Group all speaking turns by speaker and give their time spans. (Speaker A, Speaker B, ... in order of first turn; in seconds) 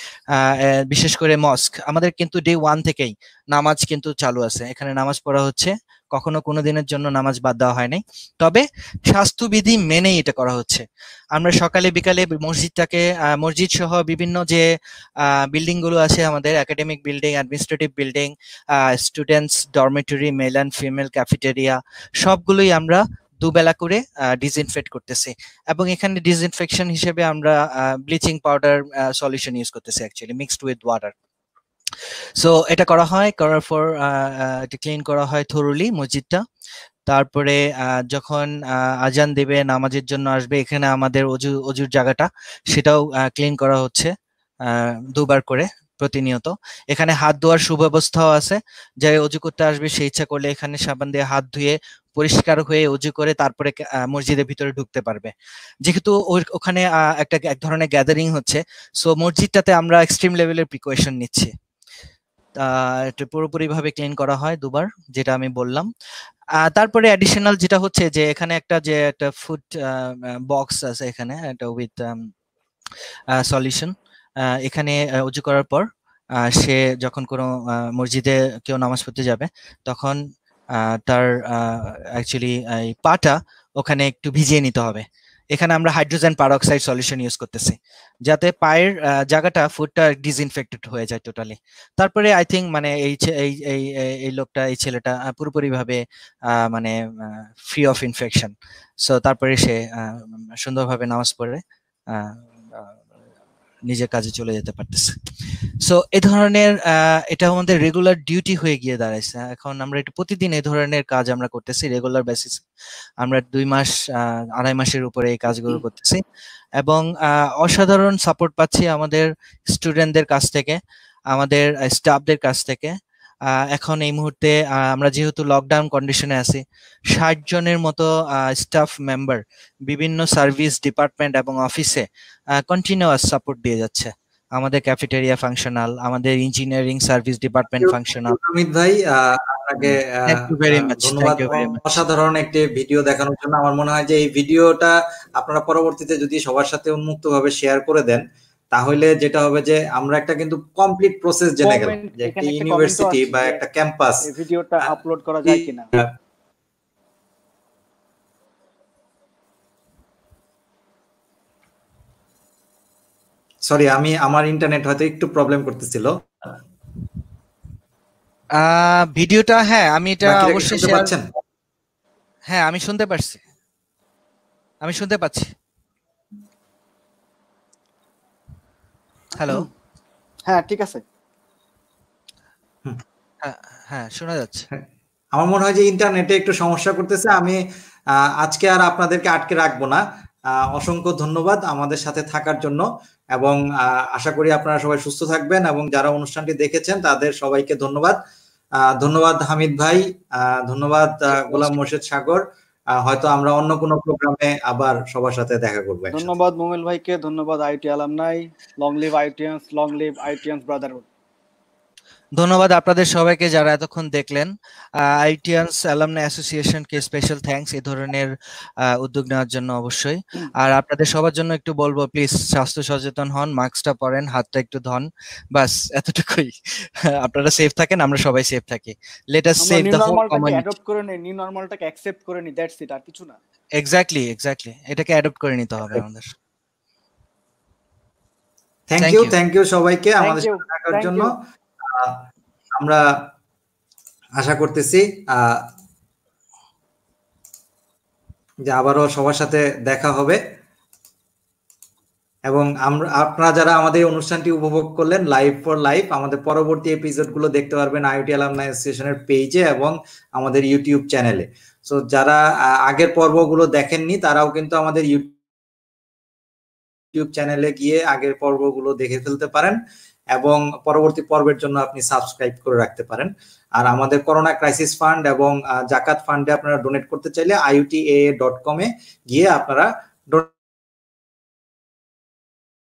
Speaker A: 0.3-14.6, 15.2-31.1, 32.4-36.4, 37.1-44.1, 44.6-55.3, 55.8-61.5, 62.6-65.9, 66.6-72.3, 73.4-73.9, 74.4-75.9, 76.4-80.2, 80.7-103.0, 103.9-105.1, 105.8-112.6, 113.2-116.2, 116.8-120.8, 121.3-122.9, 123.5-138.4, 140.3-142.0, 168.5-171.1, 172.5-173.4, 174.8-175.5, 179.3-179.7, 183.4-184.7, 212.4-230.7, 233.8-236.3, 239.0-239.3
Speaker B: 137.8-154.2, 155.5-156.1, 163.7-166.6, 170.2-171.3, 184.7-187.6, 188.2-198.2, 198.8-202.4, 202.9-206.3, 238.9-241.3, 241.8-242.2, 244.4-245.6, 248.7-250.4, 252.5-265.4, 267.1-269.8, 270.3-280.5
Speaker C: 151.6-153.6, 154.2-155.9, 180.5-181.0, 206.1-211.1, 229.6-233.4, 240.2-241.3